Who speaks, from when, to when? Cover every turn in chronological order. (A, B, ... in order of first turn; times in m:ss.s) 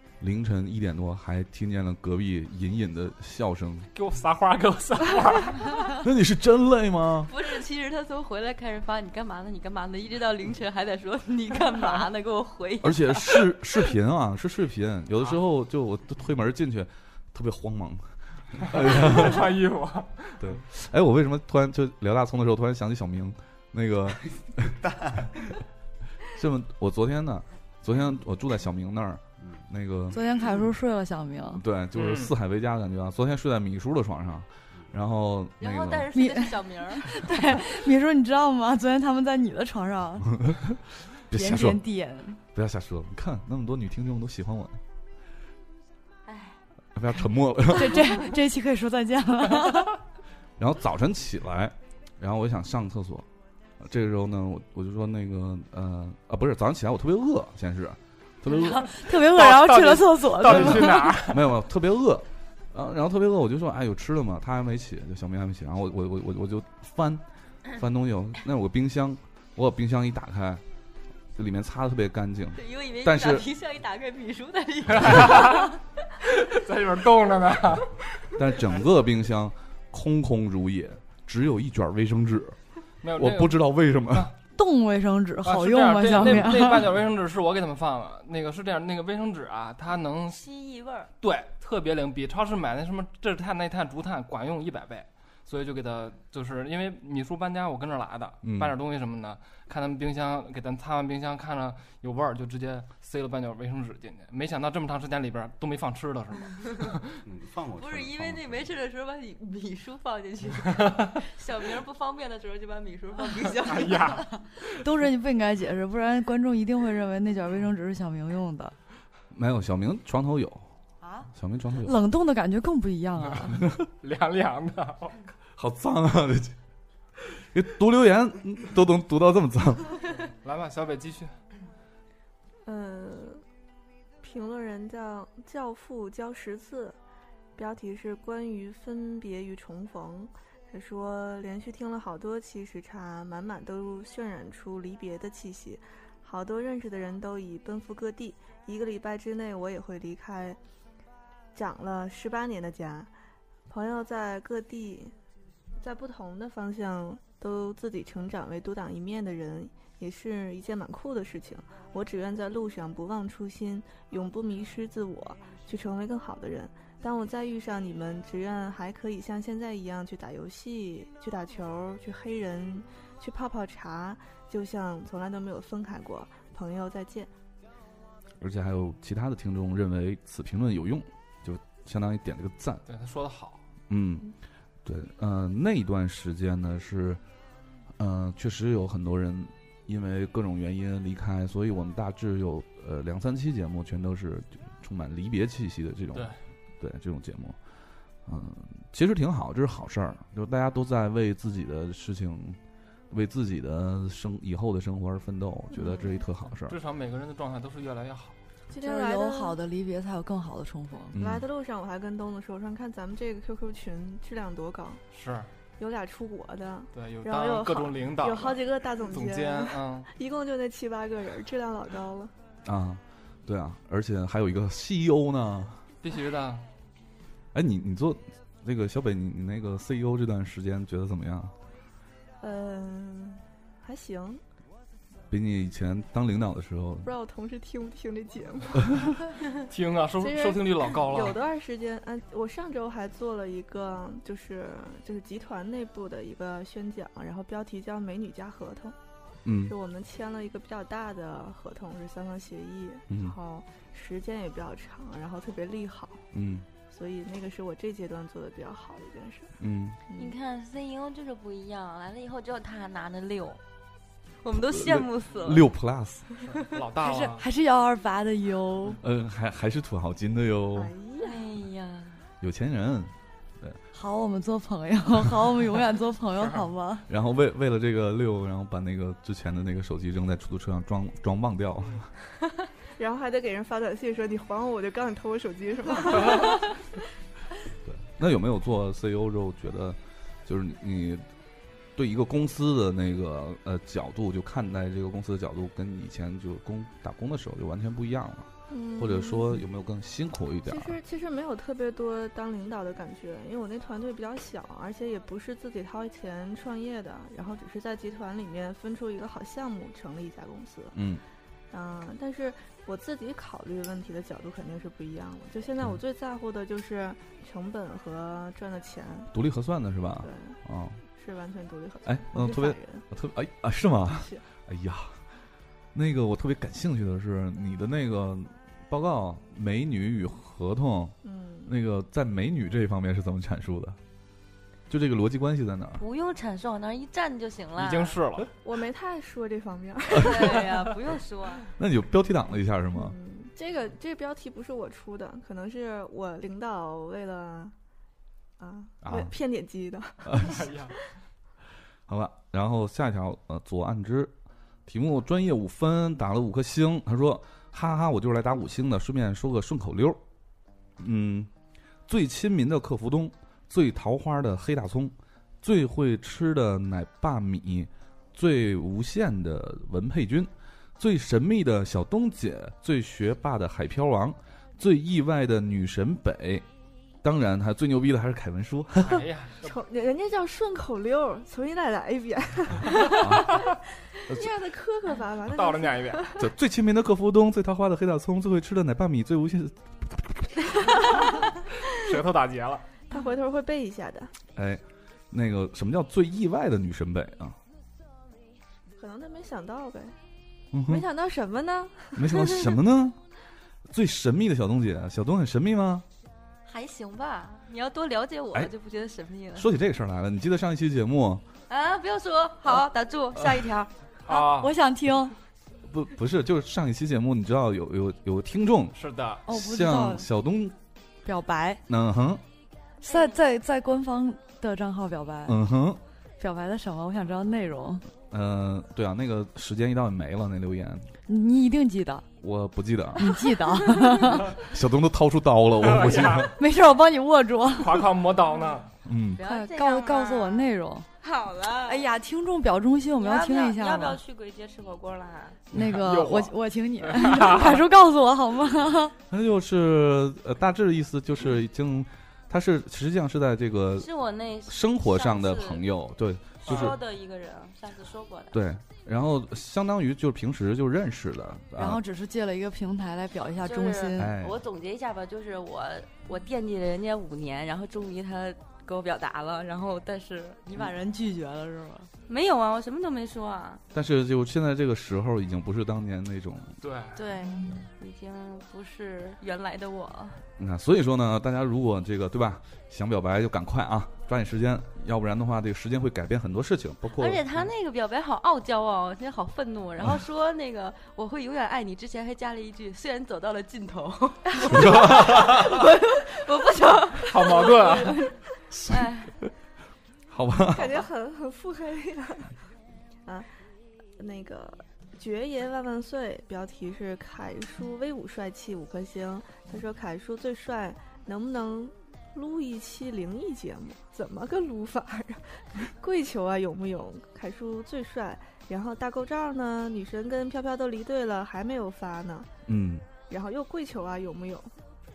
0:00.2-0:03.9 A
0:04.0-0:05.8 B
0:06.0-0:07.3 A
0:07.3-0:13.5 C
0:12.8-0:19.6 A
0:18.7-0:20.6 B
0:20.4-0:24.8 A
0:24.6-0:25.6 D
0:26.3-0:30.2 A
0:30.1-0:31.6 E
0:31.6-0:36.1 A
0:31.9-0:32.3 B
0:35.6-0:37.6 C
0:36.1-0:40.3 E
0:40.2-0:40.8 A
0:41.3-0:41.8 A
0:41.3-0:42.4 E
0:42.6-0:44.8 A
0:46.3-0:46.6 C
0:47.0-0:48.1 A
0:47.7-0:50.0 E
0:50.6-0:53.3 A
0:53.8-0:58.8 A
0:58.5-1:01.2 E
0:59.2-1:01.5 B
1:00.5-1:10.6 A
1:11.4-1:13.5 A
1:12.6-1:15.7 C
1:15.0-1:15.7 B
1:16.3-1:17.9 B
1:18.4-1:22.6 A
1:23.0-1:24.3 B
1:23.2-1:24.3 A
1:24.6-1:26.9 E
1:25.4-1:30.4 B
1:26.2-1:26.5 A
1:30.3-1:31.1 C
1:31.2-1:47.1 B
1:38.4-1:38.7 A
1:47.2-1:48.7 D
1:47.8-1:54.3 C
1:50.7-1:51.1 B
1:53.6-1:54.3 B
1:54.8-1:58.8 E
1:59.3-2:00.7 A
2:01.0-2:01.3 E
2:01.4-2:01.9 A
2:01.8-2:03.6 E
2:03.5-2:03.9 A
2:04.0-2:05.3 B
2:05.6-2:06.6 A
2:07.4-2:10.0 A
2:10.4-2:11.3 B
2:12.6-2:13.4 F
2:14.2-2:17.0 F
2:17.6-2:30.6 F
2:31.5-2:33.1 F
2:33.7-2:35.1 F
2:35.8-2:57.3 F
2:58.4-3:02.8 A
3:02.9-3:03.6 B
3:03.9-3:04.3 A
3:04.8-3:07.2 A
3:08.0-3:17.6 A
3:16.1-3:16.4 B
3:18.3-3:22.6 A
3:23.1-3:26.8 A
3:25.8-3:26.2 F
3:26.6-3:28.4 B
3:28.7-3:29.6 F
3:28.8-3:31.2 E
3:31.1-3:31.4 A
3:31.2-3:35.0 F
3:35.1-3:35.5 B
3:35.8-3:42.3 F
3:36.9-3:40.1 B
3:42.6-3:45.8 A
3:46.0-3:46.6 B
3:47.5-3:51.5 A
3:52.4-3:54.4 F
3:55.3-3:57.1 A
3:57.0-3:59.3 F
3:59.7-4:01.4 B
4:00.2-4:09.0 F
4:09.4-4:09.7 A
4:09.7-4:16.3 F
4:13.1-4:13.4 A
4:16.3-4:16.7 A
4:16.9-4:19.5 F
4:19.6-4:20.0 A
4:20.1-4:20.4 F
4:20.2-4:23.6 C
4:24.4-4:25.7 C
4:24.5-4:26.2 A
4:26.4-4:27.4 B
4:27.0-4:29.0 E
4:29.0-4:30.9 A
4:30.8-4:31.4 F
4:31.2-4:32.2 C
4:32.4-4:33.8 A
4:33.9-4:37.1 E
4:36.4-4:36.7 B
4:37.1-4:42.1 A
4:43.0-4:46.7 F
4:47.8-4:51.2 A
4:52.0-5:01.0 A
4:58.7-4:59.6 F
5:00.7-5:11.0 F
5:10.9-5:11.2 A
5:11.7-5:19.3 F
5:19.3-5:21.0 A
5:20.2-5:20.6 F
5:21.1-5:23.0 F
5:22.0-5:25.2 A
5:24.2-5:24.4 F
5:25.9-5:34.0 A
5:31.2-5:31.7 F
5:34.9-5:36.0 A
5:36.0-5:38.2 C
5:37.8-5:38.5 B
5:38.6-5:40.7 F
5:40.2-5:41.7 C
5:41.8-5:43.2 A
5:42.9-5:47.7 F
5:48.6-5:50.9 F
5:49.0-5:49.3 A
5:50.3-5:50.6 A
5:50.4-5:51.0 B
5:52.1-5:54.3 A
5:54.9-6:00.2 A
6:01.0-6:01.5 A
6:02.1-6:16.7 A
6:17.2-6:19.3 A
6:19.0-6:19.8 B
6:19.6-6:23.6 F
6:23.0-6:23.6 A
6:24.3-6:26.4 F
6:24.3-6:24.5 A
6:25.5-6:26.3 B
6:26.4-6:30.6 A
6:31.9-6:32.8 B
6:33.1-6:34.3 F
6:34.6-6:37.6 A
6:39.0-6:40.2 F
6:40.7-6:41.1 A
6:40.9-6:42.4 F
6:42.2-6:43.2 A
6:43.9-6:46.0 A
6:46.6-6:49.7 C
6:49.6-6:51.4 A
6:51.7-6:53.9 C
6:54.3-6:54.7 B
6:54.3-6:55.4 E
6:55.9-7:00.8 A
6:59.0-6:59.4 B
6:59.5-7:00.3 E
7:01.2-7:01.8 E
7:01.9-7:02.4 A
7:03.0-7:03.4 C
7:03.0-7:05.6 E
7:05.5-7:06.0 A
7:06.4-7:08.0 E
7:08.3-7:11.1 A
7:11.3-7:12.3 E
7:12.4-7:13.4 A
7:13.2-7:14.6 E
7:13.8-7:14.2 C
7:14.6-7:16.5 A
7:15.8-7:16.5 B
7:16.6-7:18.0 E
7:17.8-7:18.9 B
7:19.0-7:19.4 A
7:19.4-7:22.1 C
7:19.4-7:21.1 E
7:21.9-7:24.2 E
7:23.2-7:25.6 C
7:25.7-7:27.8 B
7:25.7-7:29.2 E
7:29.3-7:34.1 A
7:34.0-7:35.8 C
7:34.7-7:37.0 A
7:36.6-7:38.6 C
7:36.7-7:37.0 B
7:38.5-7:42.0 A
7:41.8-7:44.3 E
7:43.6-7:50.9 C
7:44.2-7:44.6 A
7:50.7-7:52.1 E
7:52.2-7:53.8 C
7:53.9-7:56.8 A
7:56.8-7:57.2 B
7:57.2-8:00.4 C
8:00.6-8:07.4 A
8:07.1-8:18.3 C
8:14.6-8:15.8 A
8:17.3-8:18.3 B
8:18.7-8:19.1 A
8:18.9-8:19.3 C
8:20.3-8:21.0 A
8:20.7-8:22.5 F
8:24.2-8:42.5 F
8:42.7-8:43.1 A
8:43.3-8:44.7 F